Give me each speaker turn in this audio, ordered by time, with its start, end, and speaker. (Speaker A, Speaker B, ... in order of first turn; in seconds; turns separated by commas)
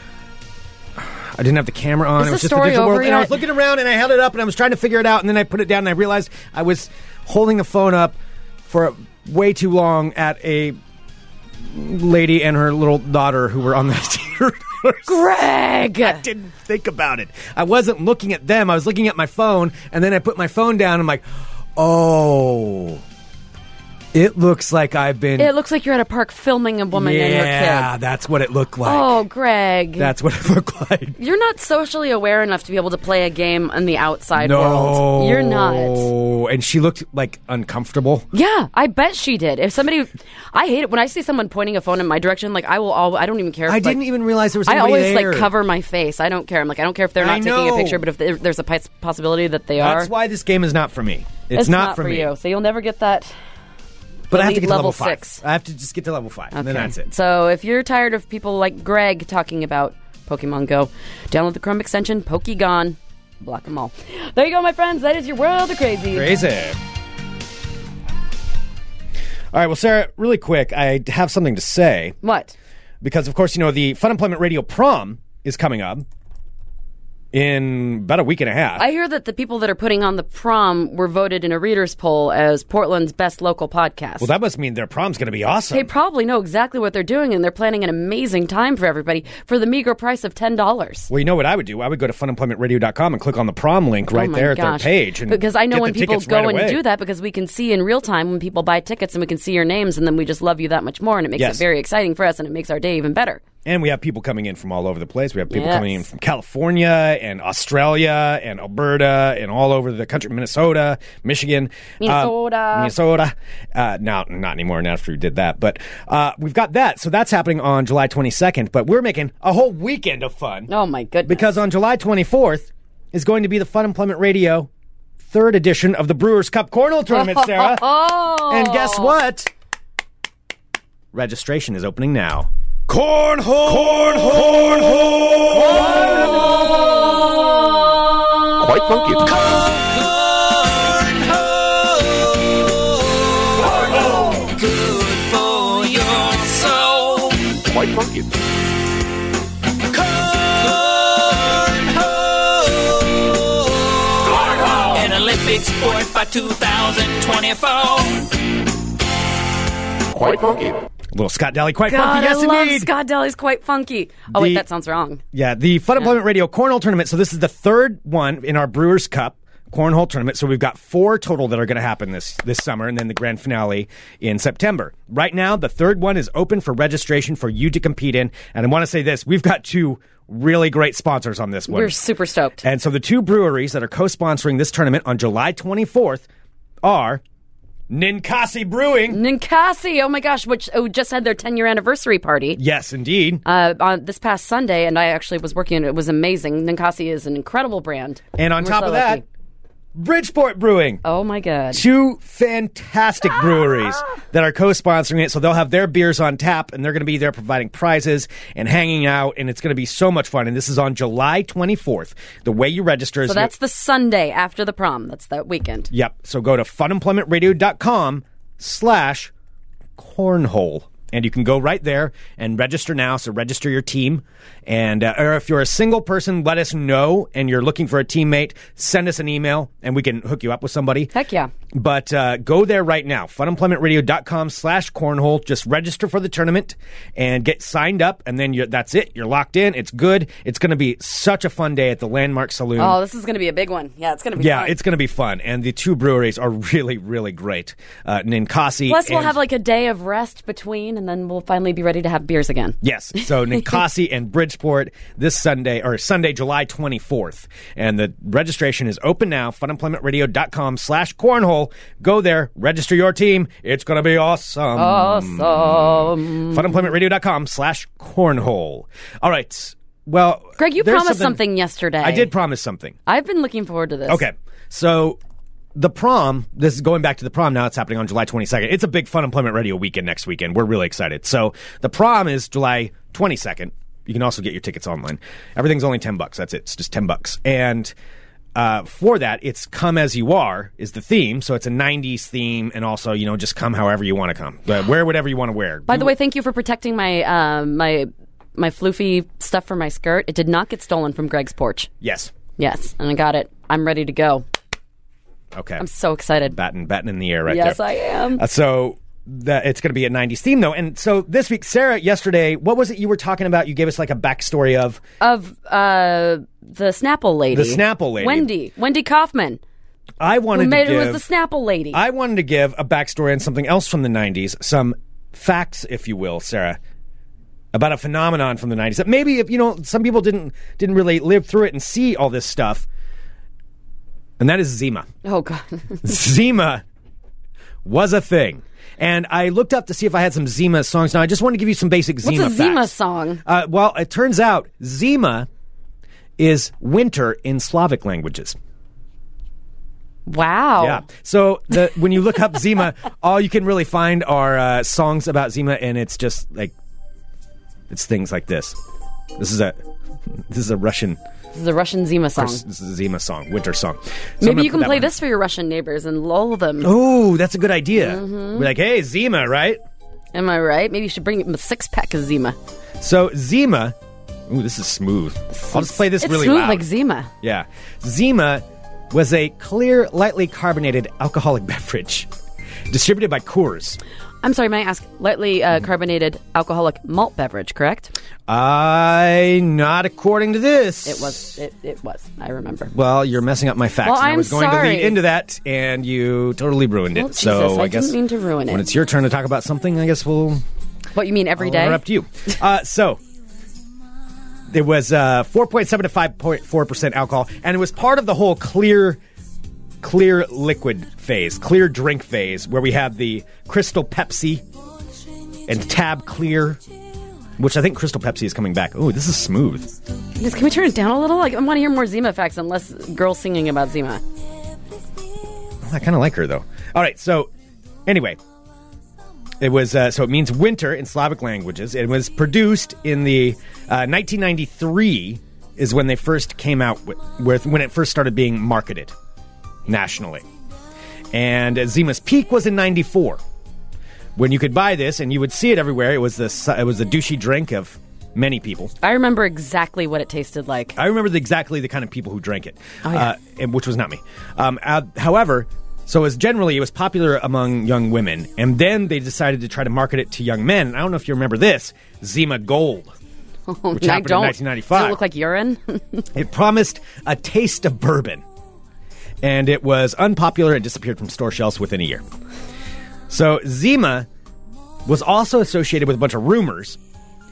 Speaker A: 1.0-10.8, Speaker B: 2.2-3.4, Speaker A: 11.7-15.3, Speaker B: 15.1-16.2, Speaker A: 16.0-23.0, Speaker A: 24.1-25.5, Speaker B: 25.4-27.9, Speaker A: 26.9-29.2, Speaker B: 28.8-30.1, Speaker A: 30.0-31.2, Speaker B: 31.2-36.1, Speaker A: 34.4-38.3, Speaker B: 38.3-44.0, Speaker A: 43.7-45.5, Speaker B: 44.6-50.1, Speaker A: 47.2-48.0, Speaker A: 49.8-52.3, Speaker B: 51.5-53.3, Speaker B: 54.3-55.4, Speaker A: 54.3-57.1, Speaker B: 56.5-66.4, Speaker A: 66.1-66.8, Speaker A: 69.5-72.2, Speaker B: 72.2-72.5, Speaker A: 73.0-76.1, Speaker A: 77.3-78.8, Speaker B: 78.8-84.3, Speaker A: 84.2-85.9, Speaker B: 85.7-91.1, Speaker A: 91.1-96.8, Speaker B: 94.1-103.4, Speaker A: 101.4-101.6, Speaker A: 103.7-120.7, Speaker B: 105.5-106.0, Speaker B: 112.0-112.9, Speaker B: 120.7-121.6, Speaker A: 121.2-124.7, Speaker A: 125.2-129.5, Speaker B: 127.1-129.1, Speaker A: 131.1-136.5, Speaker C: 138.6-139.5, Speaker D: 139.8-142.7, Speaker D: 143.5-147.5, Speaker C: 147.7-148.3, Speaker D: 150.0-153.6, Speaker D: 154.2-158.3, Speaker C: 160.1-160.8, Speaker A: 161.1-162.9, Speaker B: 161.9-165.2, Speaker A: 164.3-164.6, Speaker A: 165.3-182.0, Speaker B: 181.7-182.6, Speaker A: 182.6-186.3, Speaker A: 186.8-187.2, Speaker A: 187.9-189.2, Speaker B: 189.1-192.6, Speaker A: 192.6-193.4, Speaker B: 193.4-199.2, Speaker A: 198.3-199.2, Speaker A: 199.9-201.0, Speaker B: 201.0-201.8, Speaker A: 201.7-213.5, Speaker B: 213.2-215.9, Speaker A: 215.9-219.3, Speaker A: 220.0-231.1, Speaker B: 231.1-231.5, Speaker A: 231.7-243.0, Speaker B: 242.8-244.8, Speaker A: 244.4-249.4, Speaker B: 248.9-252.8, Speaker A: 252.8-271.4, Speaker B: 264.8-266.9, Speaker B: 270.6-272.3, Speaker A: 272.0-273.0, Speaker B: 273.1-274.2, Speaker A: 274.1-275.2, Speaker A: 275.8-287.9, Speaker A: 288.6-296.1, Speaker B: 295.9-301.9, Speaker A: 302.0-302.3, Speaker B: 302.6-304.5, Speaker A: 305.5-305.9, Speaker B: 305.8-306.6, Speaker A: 306.5-307.8, Speaker B: 307.5-308.4, Speaker A: 308.3-315.0, Speaker B: 315.2-319.6, Speaker A: 317.5-318.5, Speaker A: 320.2-321.2, Speaker B: 320.5-322.0, Speaker A: 321.9-326.8, Speaker A: 327.7-332.9, Speaker A: 334.4-335.1, Speaker B: 335.2-336.1, Speaker A: 336.0-336.8, Speaker A: 337.8-342.9, Speaker B: 342.2-343.4, Speaker A: 343.4-345.5, Speaker A: 346.4-348.6, Speaker B: 350.3-351.0, Speaker A: 350.8-356.7, Speaker A: 357.9-358.8, Speaker A: 359.4-361.2, Speaker B: 361.5-362.6, Speaker A: 362.4-365.1, Speaker B: 364.4-366.9, Speaker A: 366.8-369.8, Speaker B: 367.9-368.7, Speaker B: 370.3-372.6, Speaker A: 373.0-374.0, Speaker A: 374.5-376.9, Speaker B: 375.5-377.3, Speaker A: 377.4-382.3, Speaker A: 382.9-384.0, Speaker B: 384.4-388.1, Speaker A: 388.5-391.6, Speaker B: 391.1-392.9, Speaker A: 392.9-400.6, Speaker B: 394.0-395.2, Speaker B: 397.1-398.9, Speaker B: 401.1-402.0, Speaker A: 401.6-403.2, Speaker A: 404.7-409.2, Speaker A: 410.0-414.6, Speaker A: 415.7-416.8, Speaker A: 417.6-420.0, Speaker B: 420.4-424.2, Speaker A: 425.8-427.5, Speaker A: 428.1-428.4, Speaker A: 429.6-439.1, Speaker A: 439.9-440.4, Speaker A: 441.3-443.4, Speaker A: 444.4-448.9, Speaker B: 449.0-451.0, Speaker A: 451.0-463.1, Speaker B: 453.0-453.3, Speaker B: 463.7-466.3, Speaker A: 463.9-465.2, Speaker A: 466.3-468.4, Speaker A: 469.4-472.2, Speaker A: 473.3-474.3, Speaker A: 475.1-477.0